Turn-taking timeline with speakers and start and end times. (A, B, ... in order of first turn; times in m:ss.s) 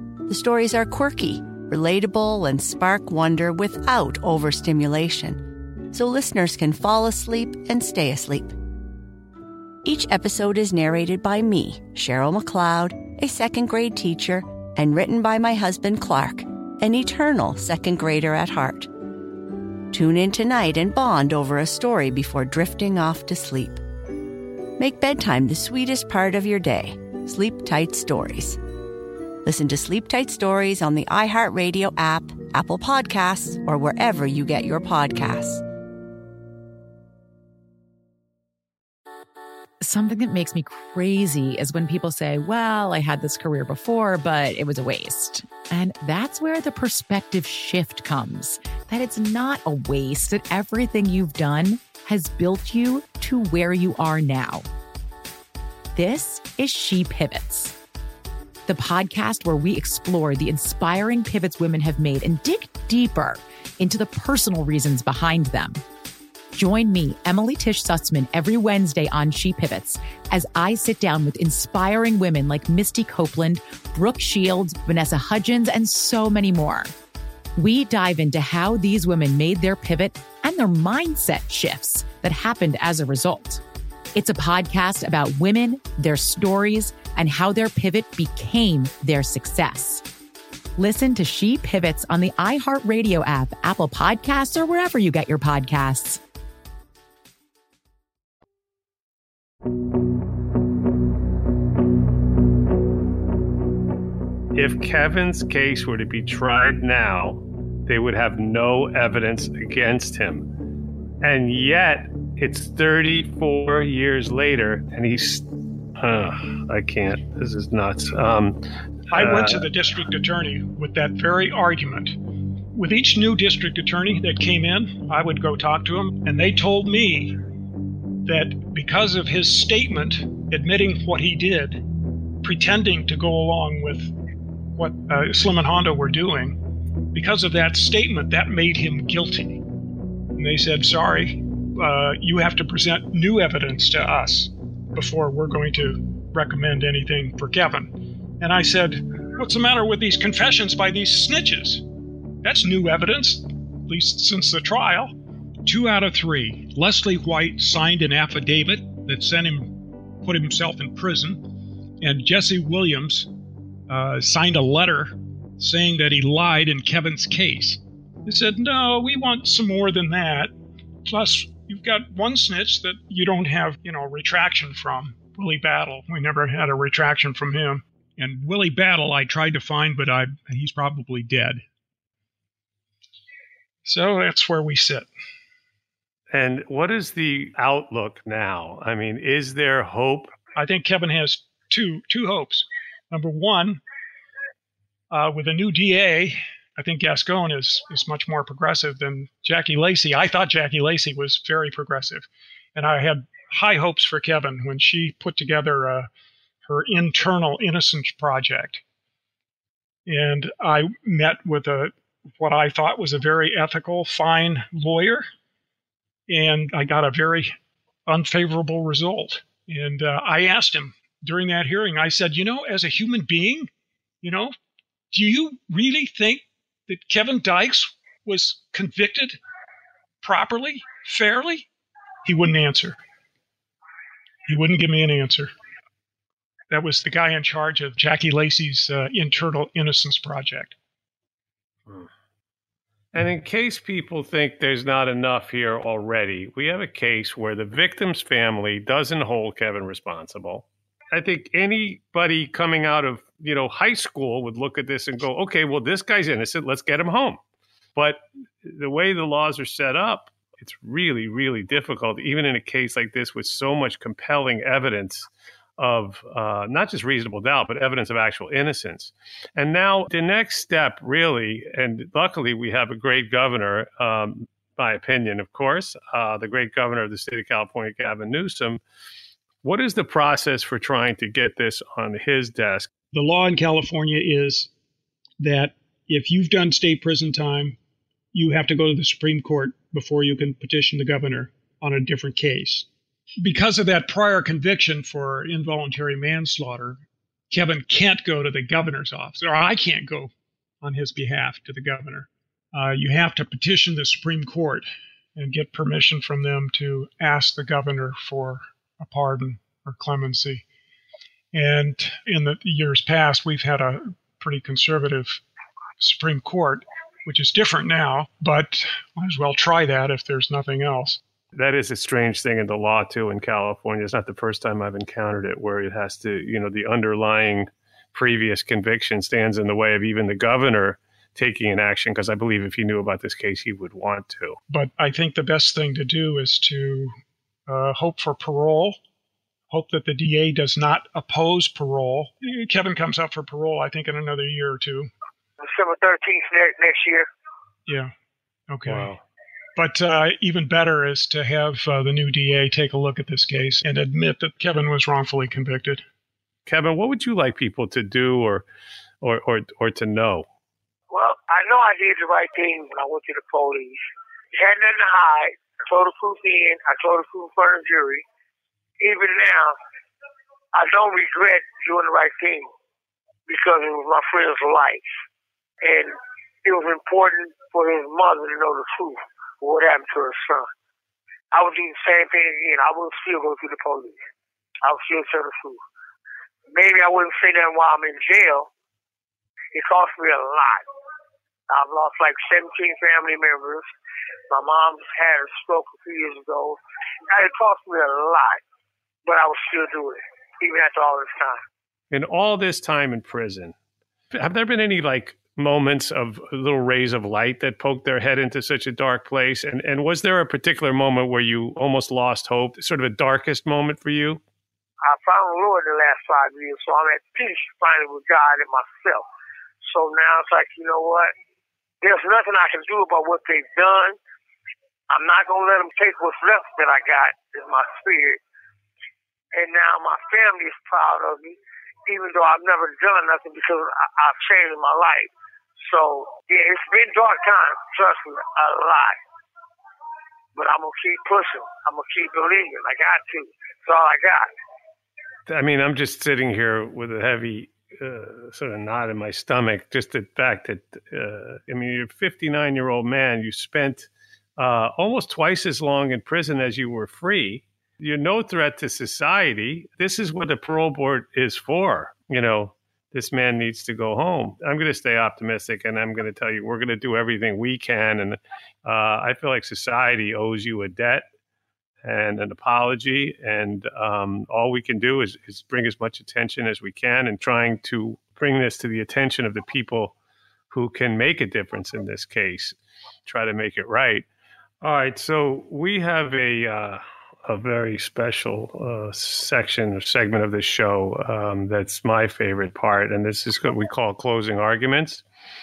0:00.3-0:08.6 A
0:09.8-0:18.9 A
0:19.9-0:23.8 A
0:24.8-0:28.6 A
0:29.4-0:35.6 A
0:39.8-0:54.7 B
0:55.9-0:57.7 B
0:58.7-1:05.8 B
1:06.5-1:16.9 B
1:17.6-1:23.6 B
1:24.1-1:30.0 B
1:30.8-1:36.2 B
1:44.5-1:50.5 C
1:51.2-1:55.4 C
1:56.0-1:58.6 C
1:59.1-2:02.2 D
1:59.1-1:59.6 C
2:02.7-2:07.4 D
2:08.2-2:11.8 D
2:12.4-2:14.1 D
2:14.8-2:16.6 D
2:17.1-2:19.6 D
2:20.3-2:31.8 D
2:32.4-2:35.1 D
2:35.6-2:41.4 D
2:42.0-2:43.3 D
2:43.9-2:50.5 D
2:51.0-3:01.6 D
3:03.8-3:05.1 D
3:06.3-3:10.3 C
3:10.6-3:13.8 D
3:15.1-3:26.1 D
3:26.6-3:28.8 D
3:30.0-3:35.2 D
3:36.3-3:37.5 D
3:38.1-3:43.7 D
3:44.2-3:44.5 D
3:45.1-3:49.4 D
3:50.2-3:51.7 D
3:52.2-3:53.0 D
3:54.4-3:55.5 D
3:56.7-4:00.7 D
4:03.1-4:17.4 C
4:18.0-4:38.8 C
4:39.6-4:42.9 C
4:43.1-4:44.7 D
4:45.4-4:47.8 D
4:48.3-4:52.9 D
4:53.4-5:00.3 D
5:00.8-5:10.6 D
5:11.5-5:15.4 D
5:16.0-5:21.2 D
5:21.5-5:34.6 C
5:34.7-5:37.1 D
5:37.7-5:39.0 D
5:39.7-5:45.1 D
5:45.6-5:47.3 E
5:47.9-5:48.1 D
5:48.7-5:49.1 D
5:48.8-5:49.2 C
5:49.8-5:56.0 D
5:56.6-5:58.6 C
5:59.2-6:00.4 C
6:01.1-6:04.0 E
6:04.5-6:08.2 E
6:09.0-6:09.7 E
6:10.7-6:12.7 E
6:13.5-6:15.0 E
6:15.8-6:20.6 E
6:21.5-6:24.2 E
6:24.8-6:25.8 E
6:26.7-6:28.7 E
6:29.7-6:30.8 E
6:31.7-6:33.9 E
6:34.5-6:36.8 E
6:37.3-6:38.6 E
6:39.2-6:41.6 E
6:42.1-6:43.7 C
6:44.3-6:54.4 C
6:55.0-6:59.2 E
6:59.8-7:01.3 E
7:02.0-7:04.2 E
7:05.1-7:08.4 E
7:09.5-7:15.3 E
7:15.8-7:19.2 E
7:20.5-7:24.5 E
7:25.5-7:51.2 C
7:52.0-8:00.1 C
8:00.7-8:04.2 C
8:04.8-8:15.2 C